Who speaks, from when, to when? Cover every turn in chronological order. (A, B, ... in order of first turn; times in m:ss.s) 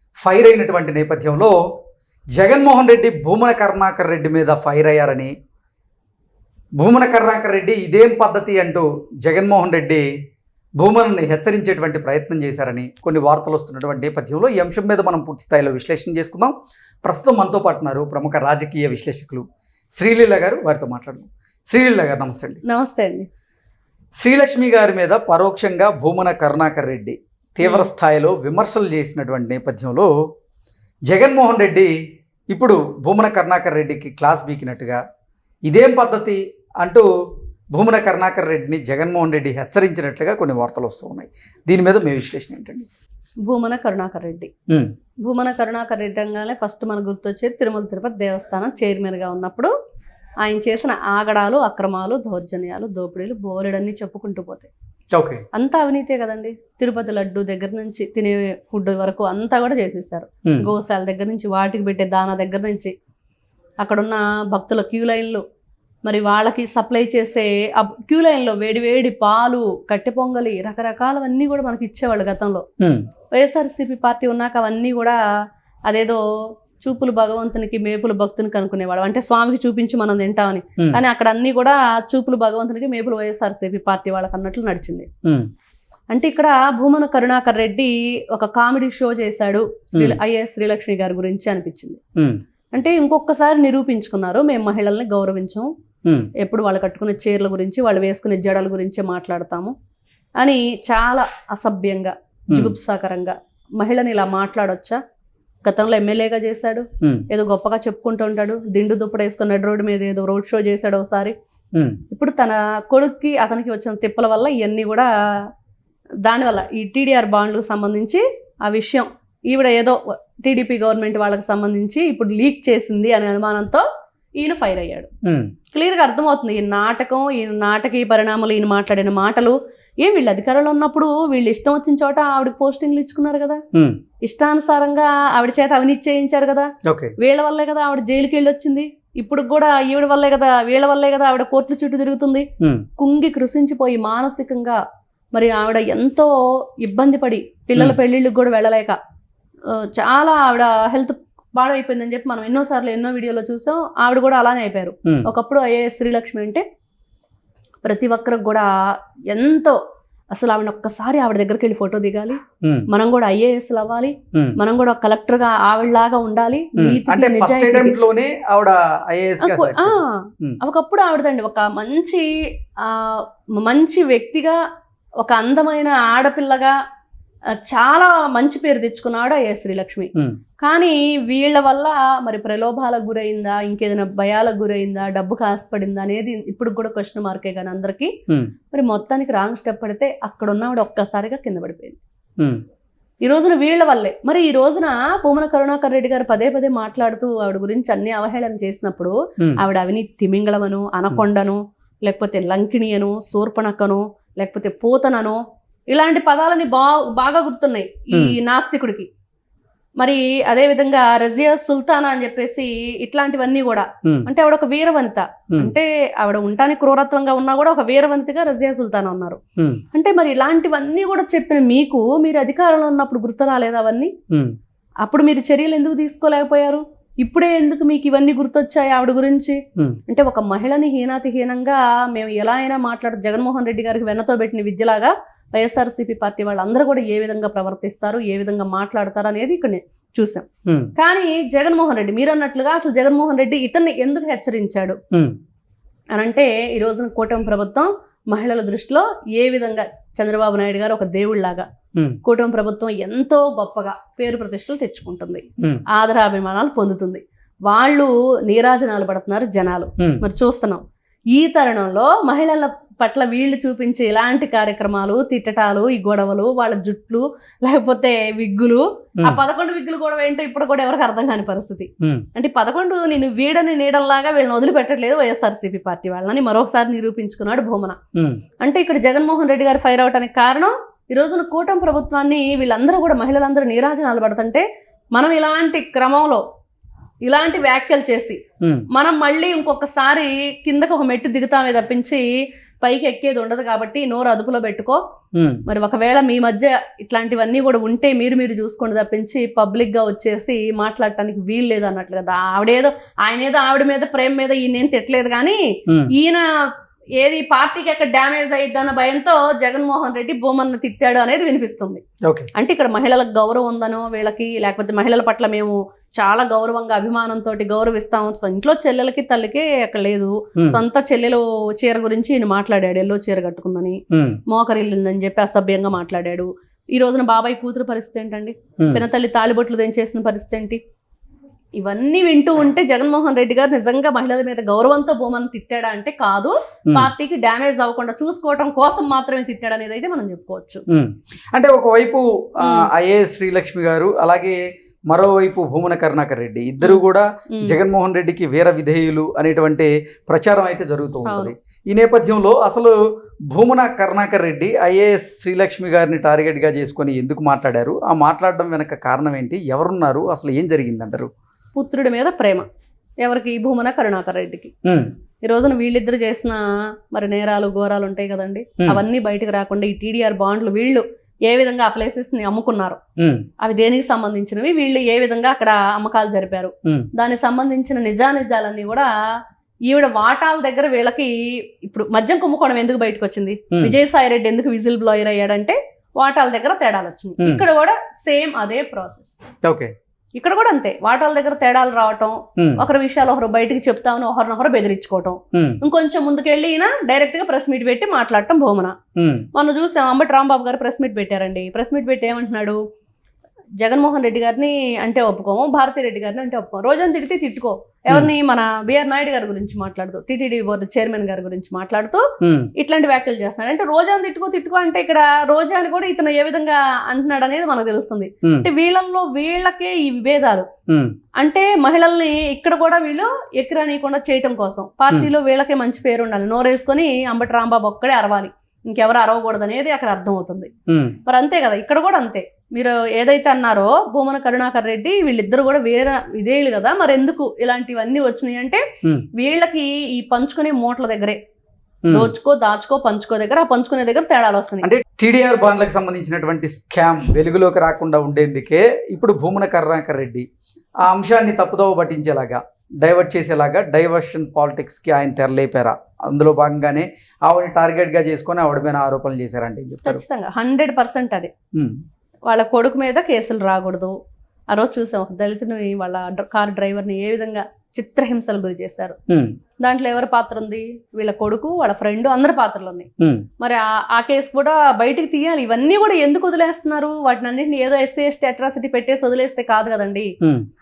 0:00.2-0:01.5 A
0:02.4-0:05.3 A
0:06.8-0:10.0 A
0:10.8-0:19.4 A
0:20.0-0:22.6 A
0:22.6-0:23.3 B
0:24.2-0:30.1 A
0:31.1-0:31.9 A
0:32.5-0:35.0 A
0:35.7-0:37.1 A
0:37.7-0:42.9 A
0:43.4-0:44.5 B
0:45.2-0:49.7 B
0:50.4-0:54.7 B
0:55.1-0:55.4 A
0:55.5-1:02.9 B
1:03.8-1:05.4 B
1:06.0-1:12.6 B
1:13.3-1:15.2 B
1:15.9-1:16.2 B
1:16.8-1:25.1 B
1:26.1-1:32.0 B
1:32.7-1:35.7 B
1:36.4-1:39.7 B
1:40.4-1:45.0 B
1:45.6-1:51.3 B
1:52.1-1:55.1 B
1:56.2-2:03.8 B
2:04.4-2:05.1 B
2:05.2-2:05.5 A
2:05.7-2:13.6 B
2:14.2-2:22.5 B
2:16.8-2:17.1 A
2:23.0-2:24.8 B
2:25.3-2:29.0 B
2:29.7-2:36.6 B
2:37.8-2:38.7 B
2:39.3-2:39.8 B
2:40.3-2:48.0 B
2:42.6-2:42.9 A
2:46.8-2:50.6 A
2:49.4-2:52.2 B
2:52.8-2:54.6 B
2:55.2-2:56.7 B
2:57.5-3:08.1 B
3:08.7-3:12.0 B
3:13.2-3:29.1 B
3:30.0-3:39.4 B
3:39.9-3:44.1 B
3:45.0-4:05.0 B
4:00.6-4:00.9 A
4:06.1-4:11.7 B
4:12.2-4:38.0 B
4:38.6-4:46.4 B
4:47.2-4:48.4 B
4:48.9-4:52.3 B
4:52.8-4:55.0 B
4:55.4-4:55.6 A
4:55.7-5:06.4 B
5:07.2-5:12.0 B
5:12.5-5:30.8 B
5:24.1-5:24.4 A
5:31.8-5:40.8 B
5:40.9-5:44.6 A
5:42.6-5:42.9 B
5:45.1-5:52.9 A
5:46.8-5:47.8 B
5:51.2-5:51.5 B
5:53.5-6:01.3 A
6:01.8-6:02.7 B
6:03.2-6:04.7 B
6:05.4-6:13.0 B
6:13.2-6:13.5 A
6:13.6-6:19.1 B
6:19.9-6:29.3 B
6:29.6-6:29.9 A
6:30.4-6:39.0 B
6:32.6-6:32.8 A
6:35.5-6:35.8 A
6:39.2-6:39.5 A
6:39.5-6:42.8 B
6:43.8-7:00.7 B
6:52.4-6:52.7 A
7:00.9-7:01.1 A
7:01.4-7:10.7 B
7:10.9-7:11.2 A
7:11.3-7:18.8 B
7:19.3-7:21.4 B
7:22.0-7:22.3 A
7:22.1-7:24.9 B
7:24.8-7:30.5 A
7:31.0-7:40.2 A
7:40.0-7:41.5 B
7:42.5-7:44.1 B
7:44.7-7:49.2 B
7:49.3-7:49.5 A
7:49.8-7:53.1 B
7:53.2-7:53.5 A
7:53.6-8:00.3 B